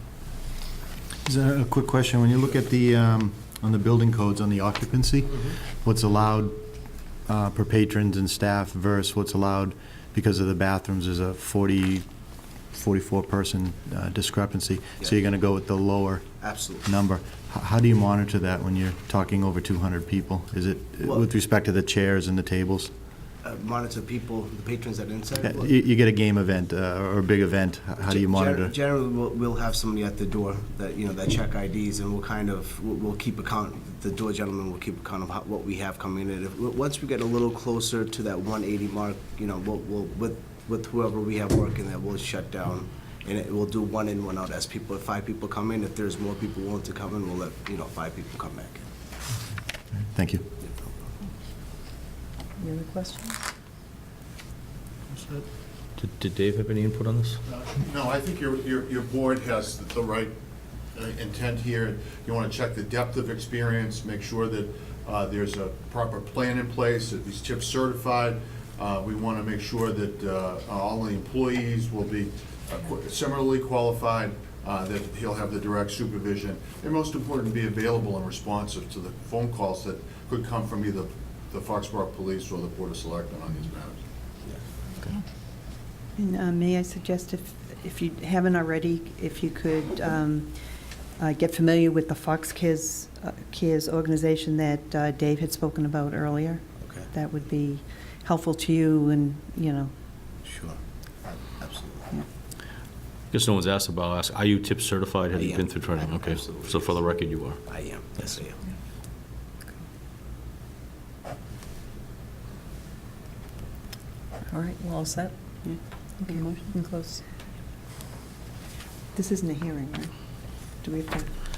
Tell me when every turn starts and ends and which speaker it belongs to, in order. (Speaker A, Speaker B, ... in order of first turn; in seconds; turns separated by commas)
Speaker A: 1.2-6.6, Speaker A: 7.3-12.1, Speaker A: 12.7-22.9, Speaker B: 16.4-16.9, Speaker B: 23.4-25.7, Speaker A: 25.4-28.7, Speaker B: 28.0-48.8, Speaker A: 49.9-50.5, Speaker C: 52.6-53.4, Speaker D: 56.0-57.4, Speaker E: 57.5-60.3, Speaker E: 60.9-84.0, Speaker F: 86.2-90.7, Speaker F: 91.2-99.9, Speaker B: 96.8-97.1, Speaker B: 100.5-102.1, Speaker D: 103.3-107.6, Speaker B: 105.4-107.1, Speaker B: 107.7-108.6, Speaker C: 114.5-115.7, Speaker F: 115.6-116.4, Speaker C: 116.2-117.2, Speaker F: 119.2-120.1, Speaker F: 120.7-121.3